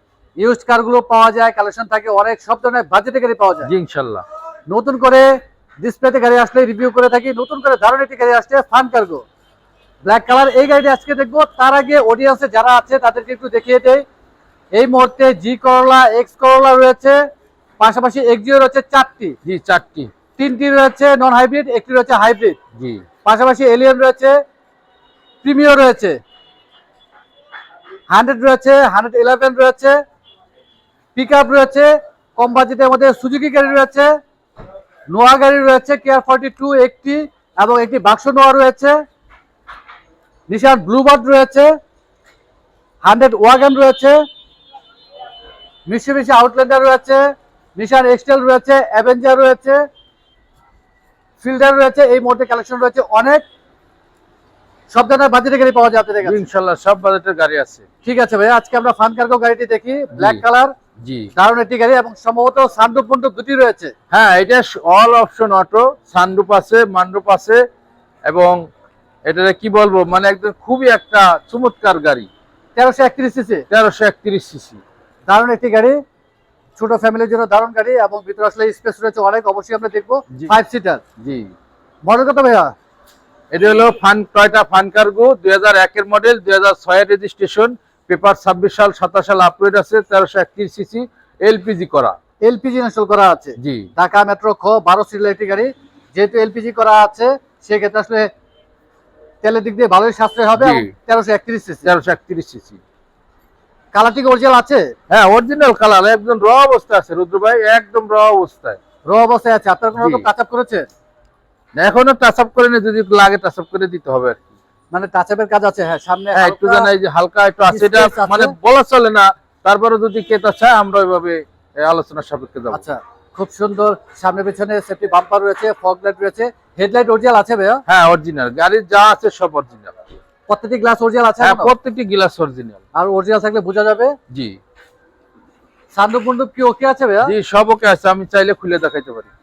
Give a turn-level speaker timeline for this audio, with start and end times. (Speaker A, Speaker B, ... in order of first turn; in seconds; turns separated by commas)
Speaker A: 0.4-3.7, Speaker B: 3.6-4.2, Speaker A: 4.7-9.2, Speaker A: 10.0-14.0, Speaker A: 14.7-17.2, Speaker A: 17.8-19.4, Speaker B: 19.4-20.1, Speaker A: 20.4-22.6, Speaker B: 22.8-23.0, Speaker A: 23.2-24.4, Speaker A: 25.4-26.2, Speaker A: 28.1-30.0, Speaker A: 31.1-34.1, Speaker A: 35.1-39.0, Speaker A: 40.5-41.7, Speaker A: 43.0-44.2, Speaker A: 45.9-47.2, Speaker A: 47.8-49.8, Speaker A: 51.4-53.4, Speaker A: 54.9-56.5, Speaker B: 56.2-57.8, Speaker A: 58.0-60.7, Speaker B: 60.1-60.4, Speaker B: 61.0-61.3, Speaker A: 61.4-63.9, Speaker B: 64.1-67.6, Speaker B: 68.2-68.6, Speaker B: 69.2-72.3, Speaker A: 72.8-73.6, Speaker B: 73.7-74.8, Speaker A: 75.3-76.0, Speaker A: 76.8-81.0, Speaker B: 81.2-81.5, Speaker A: 82.0-82.7, Speaker B: 83.5-92.2, Speaker A: 92.4-98.3, Speaker B: 93.6-93.9, Speaker A: 99.4-101.9, Speaker B: 100.6-100.9, Speaker B: 101.8-102.8, Speaker A: 103.9-104.9, Speaker B: 105.1-108.8, Speaker A: 109.1-110.8, Speaker B: 110.0-110.3, Speaker B: 111.8-114.4, Speaker A: 114.9-116.9, Speaker B: 116.3-122.8, Speaker A: 117.7-118.5, Speaker A: 122.7-127.8, Speaker B: 127.9-130.0, Speaker A: 130.5-131.7, Speaker B: 131.4-132.8, Speaker A: 132.9-134.2, Speaker B: 134.3-134.6, Speaker A: 135.9-137.3, Speaker B: 137.3-139.3